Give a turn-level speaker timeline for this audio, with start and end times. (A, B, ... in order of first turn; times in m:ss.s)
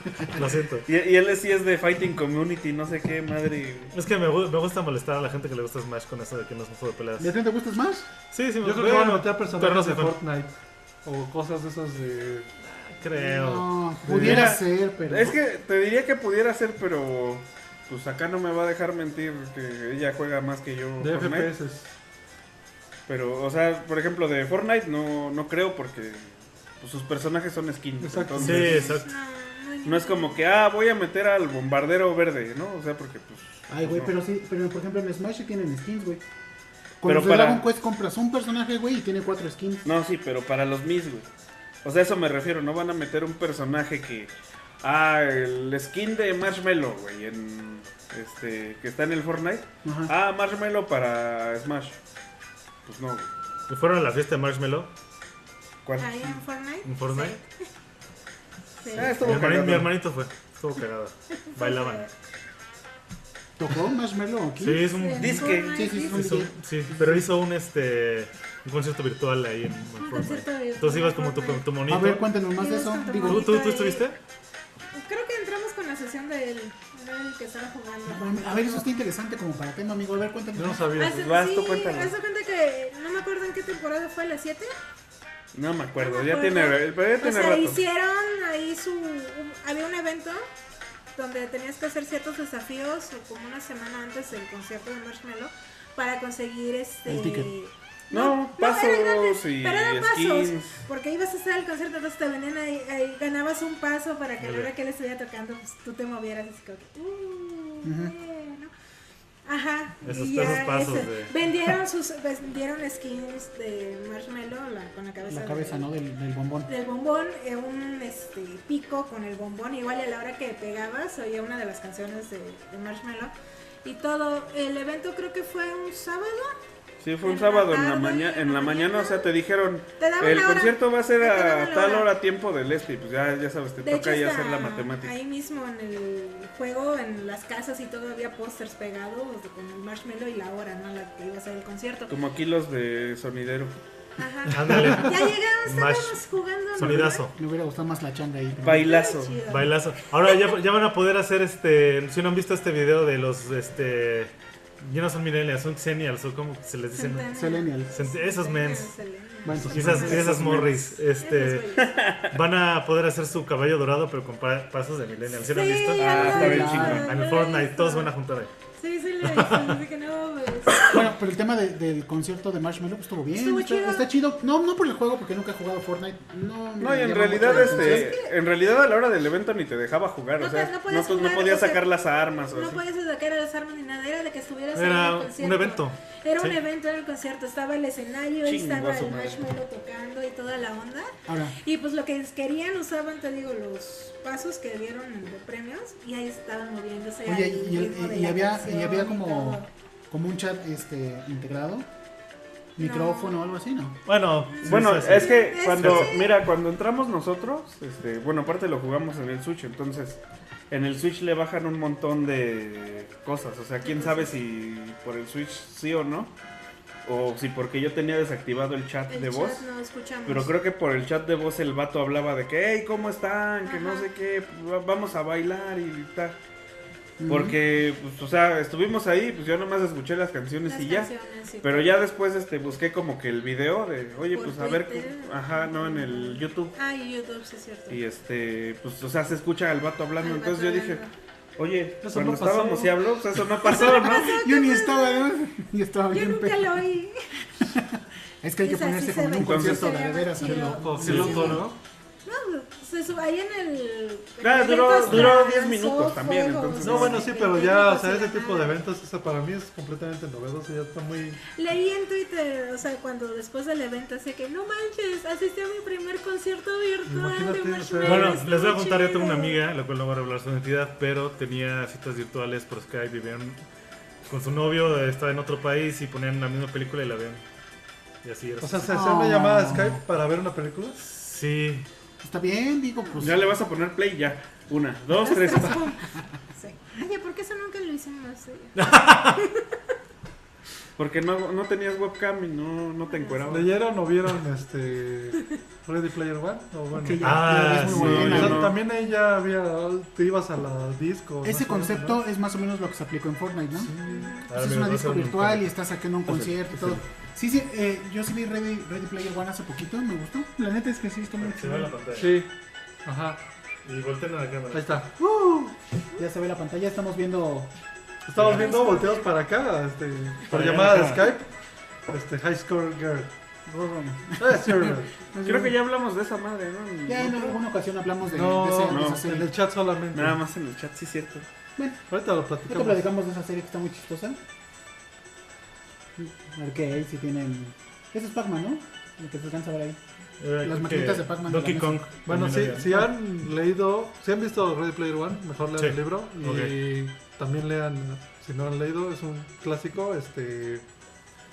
0:00.3-0:00.9 A
0:00.8-0:04.0 B
0:03.9-0:07.4 A
0:07.2-0:08.1 C
0:08.3-0:10.2 A
0:08.6-0:12.5 D
0:12.6-0:13.7 A
0:13.2-0:15.4 C
0:14.0-0:14.5 D
0:14.2-0:21.5 B
0:21.0-0:22.0 D
0:23.1-0:28.9 B
0:28.0-0:28.9 D
0:28.4-0:29.1 A
0:28.6-0:30.4 E
0:29.8-0:34.1 B
0:33.7-0:36.2 C
0:37.0-0:39.8 C
0:37.0-0:37.6 B
0:39.8-0:41.3 B
0:41.8-0:52.0 B
0:49.8-0:50.1 C
0:52.8-0:53.3 B
0:53.7-0:54.9 A
0:55.8-0:56.4 B
0:56.0-0:57.5 E
0:56.8-0:57.4 A
0:58.8-0:59.2 E
0:58.9-0:59.9 B
0:58.9-1:02.0 A
1:01.5-1:02.1 E
1:03.6-1:07.3 C
1:04.6-1:12.3 A
1:04.9-1:06.3 E
1:05.2-1:05.9 B
1:10.0-1:11.7 E
1:11.9-1:13.5 C
1:12.6-1:14.0 E
1:13.2-1:14.2 A
1:14.9-1:18.9 E
1:18.1-1:20.9 C
1:20.5-1:21.3 D
1:20.9-1:24.7 E
1:21.2-1:22.1 B
1:25.5-1:27.8 B
1:26.0-1:30.4 E
1:31.1-1:48.7 E
1:37.0-1:37.5 C
1:38.1-1:40.8 B
1:44.4-1:44.7 A
1:47.8-1:48.1 C
1:49.4-1:55.9 E
1:50.0-1:51.3 A
1:55.3-1:56.7 C
1:56.7-2:03.3 E
2:03.8-2:06.5 E
2:07.0-2:15.1 B
2:07.2-2:09.3 E
2:10.0-2:12.1 E
2:13.8-2:22.1 E
2:22.1-2:23.8 B
2:24.2-2:27.2 E
2:24.5-2:26.2 A
2:24.6-2:24.9 D
2:26.7-2:27.4 A
2:26.8-2:28.9 C
2:28.6-2:29.4 B
2:28.8-2:29.8 E
2:29.5-2:37.4 A
2:36.9-2:40.4 E
2:37.3-2:38.0 C
2:37.9-2:39.0 A
2:39.4-2:40.9 C
2:39.6-2:40.6 D
2:39.6-2:41.7 A
2:41.0-2:41.9 E
2:41.8-2:42.4 B
2:42.3-2:48.5 A
2:45.4-2:48.1 E
2:46.0-2:47.1 B
2:46.1-2:47.1 C
2:48.8-2:51.1 E
2:49.2-2:49.8 A
2:50.9-2:58.1 C
2:53.3-2:54.1 E
2:56.8-3:02.8 B
2:57.4-2:58.3 E
3:00.4-3:01.8 E
3:02.5-3:19.7 E
3:04.7-3:06.6 A
3:08.4-3:09.4 B
3:11.3-3:11.6 C
3:17.2-3:21.9 C
3:22.8-3:24.0 C
3:22.8-3:23.4 E
3:24.0-3:26.1 A
3:24.6-3:26.2 E
3:24.6-3:36.3 B
3:33.8-3:34.4 E
3:37.0-3:39.7 B
3:39.1-3:40.5 E
3:40.2-3:46.4 B
3:43.6-3:44.1 E
3:47.2-3:47.6 C
3:47.3-3:51.1 B
3:50.7-3:51.9 E
3:51.6-3:56.8 B
3:54.3-3:58.0 E
3:57.9-4:01.0 B
4:00.2-4:01.1 E
4:01.6-4:04.4 B
4:02.0-4:03.0 D
4:03.6-4:05.3 E
4:03.8-4:06.8 C
4:06.1-4:07.4 E
4:07.7-4:11.6 C
4:08.6-4:11.7 E
4:09.4-4:09.9 B
4:09.6-4:11.8 D
4:11.0-4:11.5 A
4:12.2-4:18.8 E
4:14.4-4:17.2 B
4:16.8-4:21.4 D
4:21.5-4:29.6 E
4:27.0-4:28.4 D
4:28.0-4:33.6 A
4:34.3-4:37.4 A
4:38.2-4:38.9 A
4:38.6-4:41.0 D
4:38.8-4:40.0 C
4:41.0-4:41.9 A
4:42.2-4:43.6 C
4:43.2-4:45.9 B
4:45.1-4:49.6 E
4:48.8-4:49.4 A
4:51.0-4:53.7 B
4:53.1-4:53.4 E
4:53.5-5:02.2 D
4:56.9-4:58.7 C
4:57.2-4:58.6 A
4:57.8-4:58.8 B
5:01.4-5:11.9 C
5:03.7-5:04.4 D
5:04.0-5:04.5 E
5:04.5-5:05.7 A
5:06.3-5:06.8 A
5:06.3-5:07.0 B
5:11.4-5:12.4 A
5:12.2-5:12.5 D
5:13.0-5:13.4 D
5:13.8-5:15.0 A
5:14.7-5:15.6 D
5:15.6-5:17.7 C
5:18.2-5:21.5 D
5:18.3-5:18.7 A
5:18.5-5:19.3 E
5:20.5-5:21.2 B
5:20.5-5:21.2 A
5:22.1-5:23.3 D
5:23.6-5:25.7 C
5:24.4-5:25.1 D
5:25.4-5:27.6 B
5:27.0-5:29.5 C
5:28.3-5:30.4 D
5:28.9-5:29.2 B
5:30.1-5:31.4 B
5:31.8-5:32.1 C
5:32.1-5:33.0 D
5:32.6-5:34.4 C
5:36.2-5:40.0 C
5:40.4-5:43.1 A
5:40.6-5:42.0 C
5:42.2-5:50.8 D
5:45.8-5:46.8 A